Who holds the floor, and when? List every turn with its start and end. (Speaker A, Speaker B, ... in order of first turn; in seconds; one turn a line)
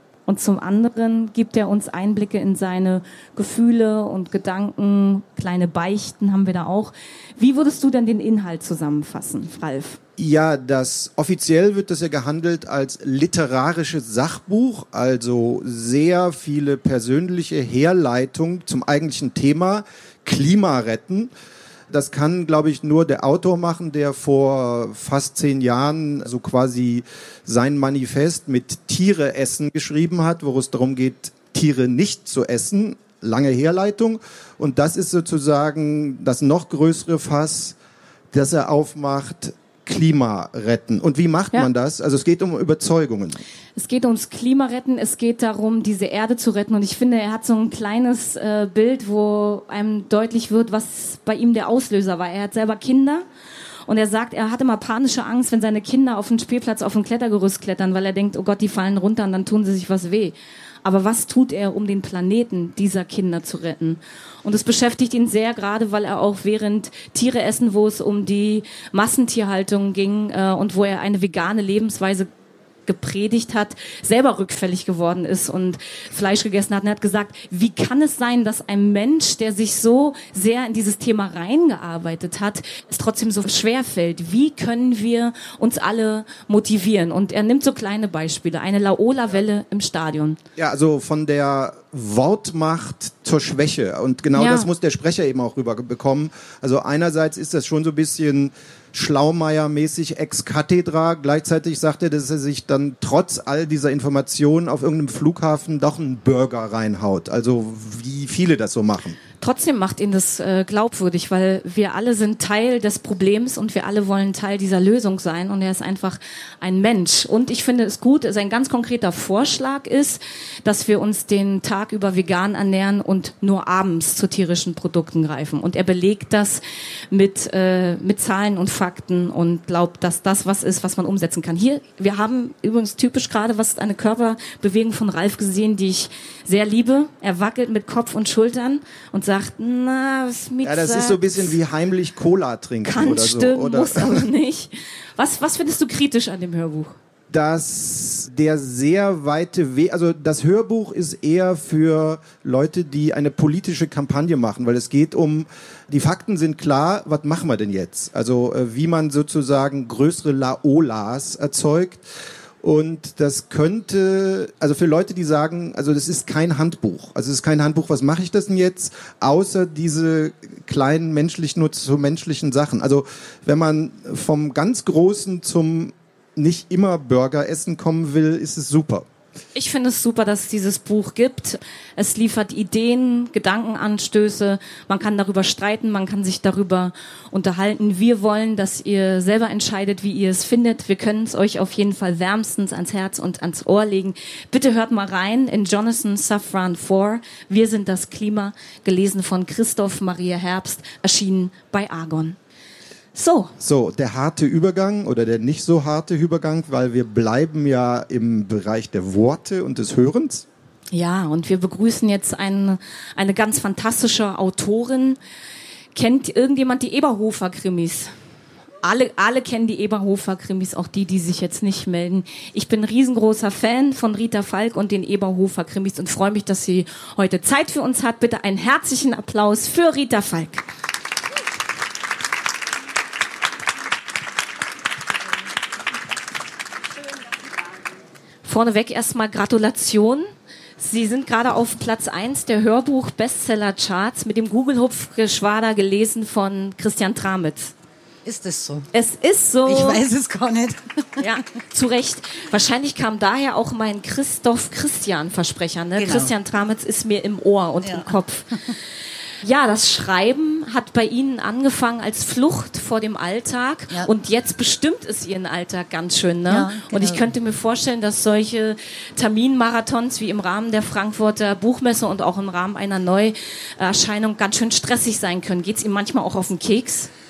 Speaker A: 0.3-10.0
Speaker B: 10.2-21.3
Speaker B: 21.9-37.8
Speaker B: 38.3-43.4
Speaker A: 43.8-53.2
Speaker A: 53.9-72.3
Speaker A: 72.8-90.4
Speaker B: 90.6-109.2
Speaker A: 94.3-94.7
Speaker A: 109.4-141.5
Speaker B: 140.6-144.3
Speaker A: 142.8-146.9
Speaker B: 147.3-162.0
Speaker B: 162.6-179.1
Speaker A: 179.5-202.4
Speaker A: 203.1-203.5
Speaker B: 203.6-210.4
Speaker A: 210.9-215.2
Speaker A: 215.9-218.1
Speaker A: 218.8-230.7
Speaker A: 238.4-240.2
Speaker A: 240.8-247.7
Speaker C: 248.2-248.9
Speaker A: 248.9-250.0
Speaker C: 249.6-251.3
Speaker A: 251.2-258.5
Speaker C: 255.9-256.3
Speaker C: 257.8-258.7
Speaker A: 259.4-277.1
Speaker C: 266.5-267.3